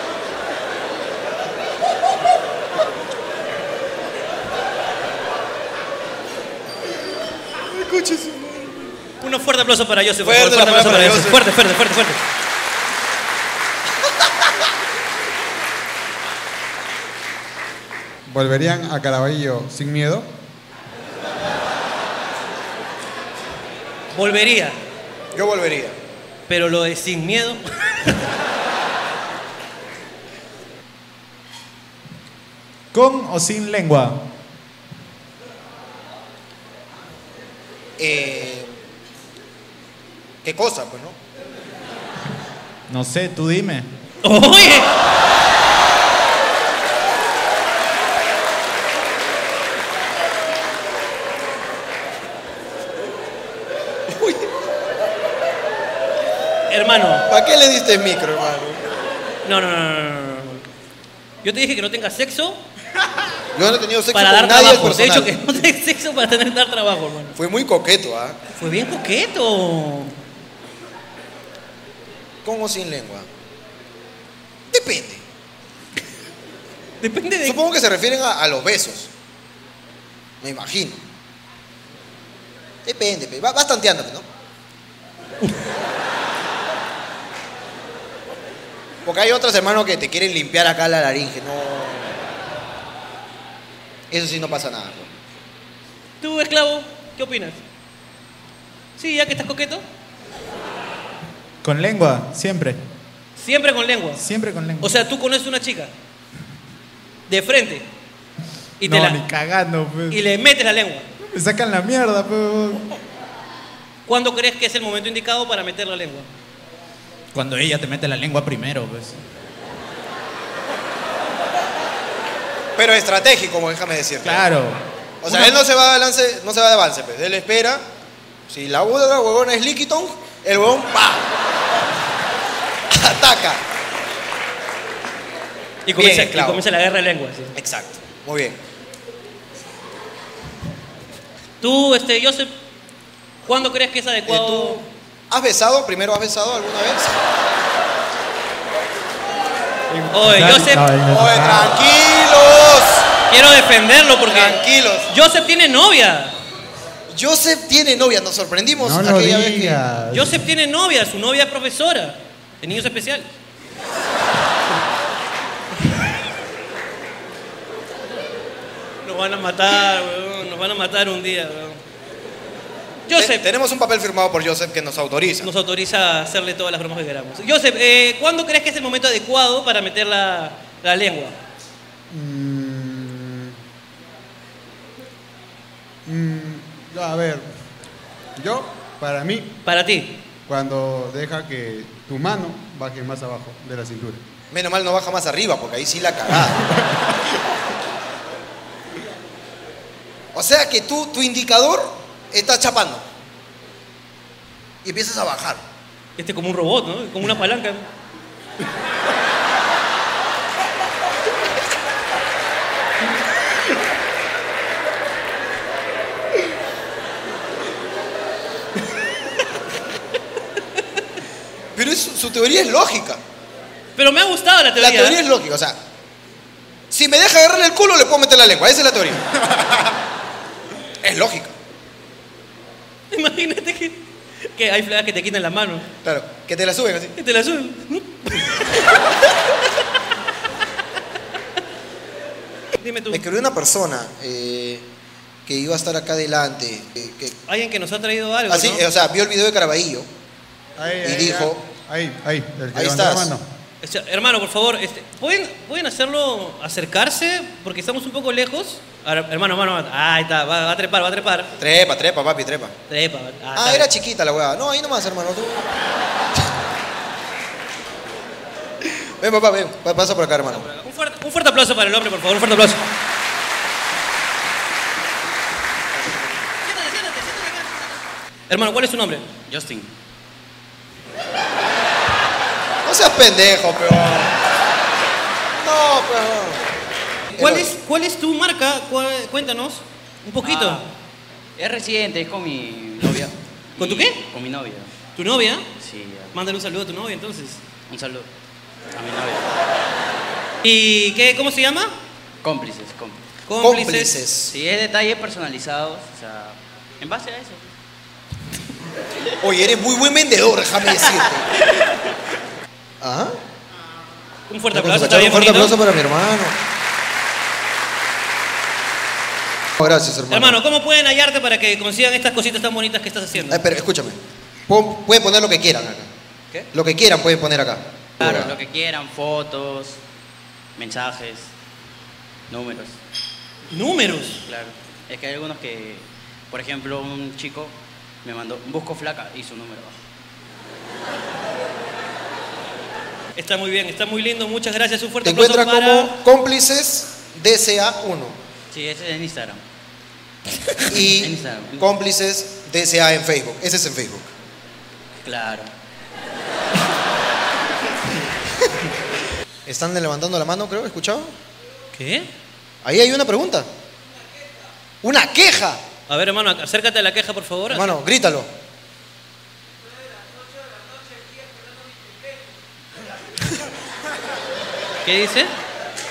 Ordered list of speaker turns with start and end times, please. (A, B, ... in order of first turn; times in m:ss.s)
0:07.7-0:08.9 A
0:09.2-0:12.2 B
0:10.2-0:11.4 A
0:18.3-0:20.3 C
0:24.1-0:24.8 B
0:25.3-0:26.0 A
0:26.5-0:28.2 B
0:32.9-0:34.3 D
0:38.0-0:38.7 A
0:40.4-0:41.2 A
0:42.9-0:43.9 D
0:44.2-0:44.9 B
0:54.1-0:54.4 A
0:56.7-0:57.3 B
0:57.3-0:58.8 A
0:59.4-1:00.6 B
1:01.4-1:02.6 B
1:03.5-1:05.4 A
1:04.1-1:07.4 B
1:07.4-1:08.4 A
1:08.6-1:10.2 B
1:12.4-1:13.3 A
1:14.7-1:15.2 A
1:17.0-1:17.6 B
1:17.4-1:19.1 A
1:20.4-1:21.0 A
1:22.8-1:24.3 A
1:29.0-1:32.2 A
1:34.1-1:35.1 A
1:36.2-1:37.6 B
1:39.0-1:39.8 B
1:41.6-1:42.8 D
1:43.4-1:44.2 B
1:44.2-1:45.0 D
1:44.8-1:45.9 B
1:47.3-1:47.9 B
1:48.8-1:49.2 B
1:48.8-1:50.2 D
1:50.1-1:51.0 B
1:51.3-1:52.8 D
1:54.1-1:56.3 B
1:57.3-1:59.2 D
2:02.8-2:04.5 A
2:04.2-2:05.5 D
2:05.2-2:07.8 A
2:08.5-2:11.3 A
2:12.9-2:13.6 A
2:15.9-2:17.6 B
2:16.0-2:16.6 A
2:17.6-2:18.6 A
2:21.6-2:22.5 B
2:23.4-2:24.8 B
2:24.3-2:27.2 A
2:29.9-2:31.8 C
2:30.1-2:30.9 B
2:31.0-2:33.1 A
2:33.3-2:36.4 B
2:34.3-2:35.1 A
2:37.1-2:39.8 A
2:38.8-2:40.4 C
2:40.1-2:43.3 B
2:49.0-2:51.8 B
2:53.1-2:53.4 B
2:53.1-2:55.5 A
2:55.4-3:01.4 B
3:02.1-3:03.6 C
3:06.1-3:07.5 C
3:08.4-3:09.6 C
3:09.7-3:10.2 B
3:10.5-3:14.2 C
3:14.5-3:16.6 A
3:20.3-3:23.0 A
3:24.8-3:25.6 A
3:26.2-3:27.9 B
3:41.8-3:43.2 A
3:44.0-3:45.2 B
3:44.8-3:45.8 A
3:46.9-3:49.2 A
3:51.0-3:51.5 A
3:53.1-3:54.0 B
3:54.5-3:55.9 B
3:56.0-3:57.1 A
3:57.2-3:58.7 B
4:02.8-4:03.2 B
4:03.1-4:04.9 A
4:05.5-4:07.4 A
4:07.5-4:08.8 B
4:08.5-4:10.1 A
4:10.8-4:13.4 C
4:11.0-4:11.6 A
4:12.7-4:13.3 A
4:13.8-4:21.5 B
4:21.6-4:22.7 A
4:22.9-4:23.9 B
4:23.6-4:25.7 A
4:28.9-4:30.7 A
4:30.6-4:32.8 B
4:36.0-4:36.3 A
4:36.6-4:38.0 B
4:38.5-4:39.3 B
4:39.5-4:39.9 E
4:42.8-4:44.4 A
4:45.6-4:46.6 A
4:47.4-4:47.8 A
4:47.4-4:50.8 B
4:50.4-4:50.9 E
4:51.6-4:54.9 E
4:53.8-4:54.2 B
4:55.2-4:55.7 B
4:55.8-4:56.4 E
4:56.3-4:57.6 B
4:57.9-4:58.3 E
4:58.9-4:59.6 E
5:00.6-5:02.0 B
5:02.4-5:03.2 E
5:03.5-5:04.2 B
5:03.6-5:04.6 A
5:04.5-5:07.7 E
5:09.4-5:11.5 A
5:13.0-5:13.4 A
5:14.5-5:15.8 B
5:14.7-5:16.6 A
5:19.8-5:20.6 A
5:20.3-5:23.7 B
5:23.4-5:26.1 A
5:26.7-5:28.5 A
5:28.2-5:30.0 E
5:30.8-5:31.5 E
5:32.5-5:33.0 E
5:33.7-5:34.4 B
5:34.5-5:40.0 E
5:43.4-5:46.2 B
5:45.2-5:48.4 A
5:48.7-5:49.6 E
5:50.9-5:54.3 A
5:51.0-5:51.8 E
5:55.2-5:55.7 E
5:59.7-6:01.3 A
6:01.9-6:02.3 B
6:02.8-6:03.7 A
6:05.0-6:05.8 A
6:06.1-6:08.0 B
6:07.7-6:08.5 A
6:15.0-6:15.5 B